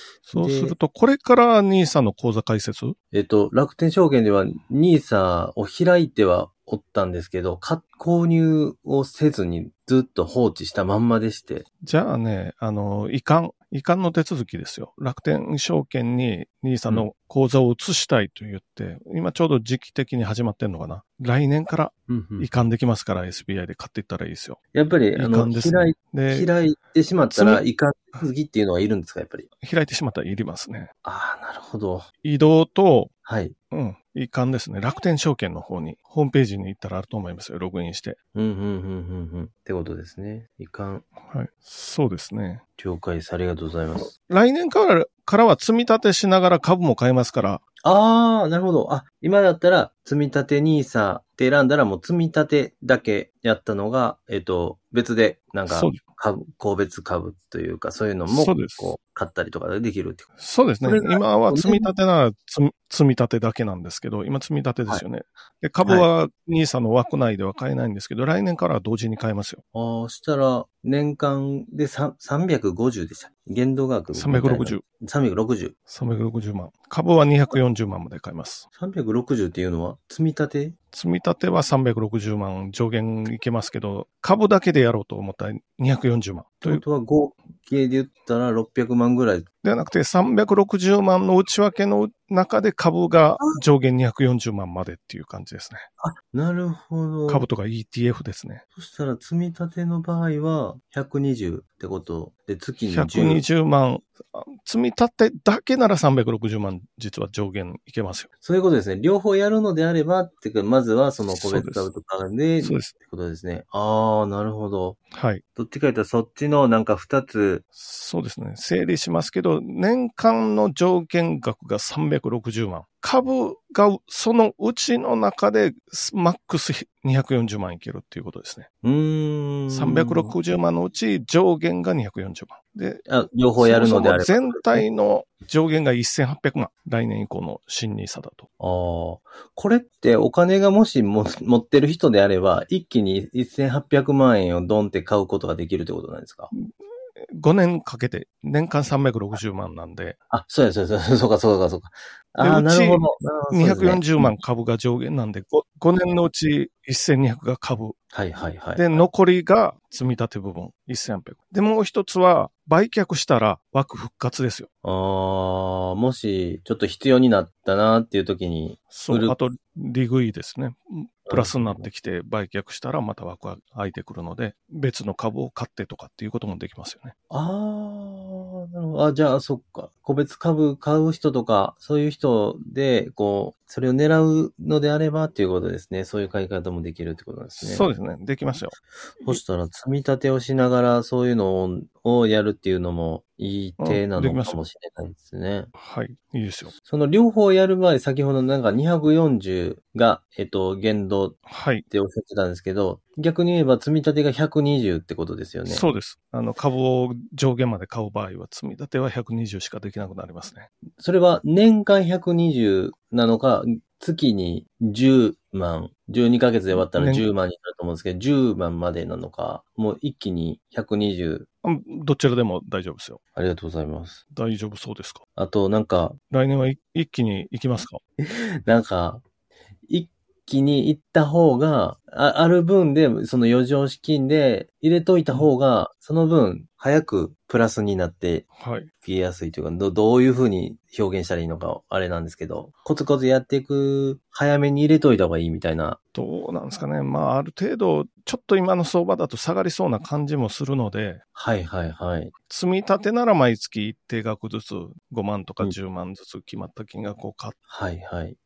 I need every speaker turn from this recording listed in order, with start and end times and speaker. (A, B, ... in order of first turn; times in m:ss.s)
0:00.3-0:03.0 A
0:00.3-0:00.8 B
0:03.1-0:11.6 B
0:11.8-0:24.6 A
0:22.1-0:22.5 B
0:24.7-0:29.5 B
0:25.2-0:26.5 A
0:27.3-0:27.6 A
0:29.6-0:30.9 A
0:31.0-0:32.1 B
0:32.2-0:33.1 A
0:33.2-0:33.6 B
0:33.7-0:38.2 A
0:38.3-0:41.0 B
0:41.2-0:42.6 A
0:42.8-0:44.1 B
0:44.3-0:47.6 A
0:47.8-1:00.3 B
0:55.7-0:56.0 A
0:58.3-0:59.0 A
1:00.4-1:09.6 A
1:00.8-1:01.9 B
1:09.7-1:15.7 B
1:14.1-1:14.8 A
1:15.9-1:18.6 A
1:18.8-1:20.8 B
1:20.9-1:26.8 A
1:26.6-1:29.5 B
1:29.6-1:35.9 A
1:36.0-1:37.5 B
1:37.3-1:38.6 A
1:38.8-1:43.5 B
1:42.8-1:48.3 A
1:48.4-1:55.0 B
1:51.2-1:51.9 A
1:52.6-1:52.9 A
1:55.1-1:55.4 A
1:55.6-1:57.6 B
1:57.8-2:08.7 A
2:08.8-2:10.3 B
2:09.7-2:13.0 A
2:13.1-2:14.9 B
2:13.6-2:18.5 A
2:18.6-2:26.5 B
2:27.3-2:30.2 A
2:30.3-2:34.4 B
2:32.4-2:38.0 A
2:38.1-2:39.1 B
2:38.8-2:44.7 A
2:44.8-2:49.4 B
2:48.9-2:57.1 A
2:51.3-2:51.9 B
2:57.3-3:07.9 B
3:07.6-3:09.4 A
3:09.2-3:15.7 B
3:13.8-3:14.6 A
3:15.8-3:16.7 A
3:16.9-3:21.4 B
3:21.5-3:21.8 A
3:21.9-3:25.9 B
3:25.7-3:30.7 A
3:31.0-3:41.5 B
3:36.7-3:37.3 A
3:41.6-3:43.2 A
3:43.4-3:44.2 B
3:44.3-3:45.2 A
3:45.4-3:46.2 B
3:46.3-3:48.0 A
3:48.2-3:49.2 B
3:49.9-3:58.5 B
3:58.6-3:58.9 A
3:59.0-4:06.0 B
4:06.1-4:11.2 A
4:11.4-4:12.3 B
4:12.5-4:17.6 A
4:17.7-4:18.4 B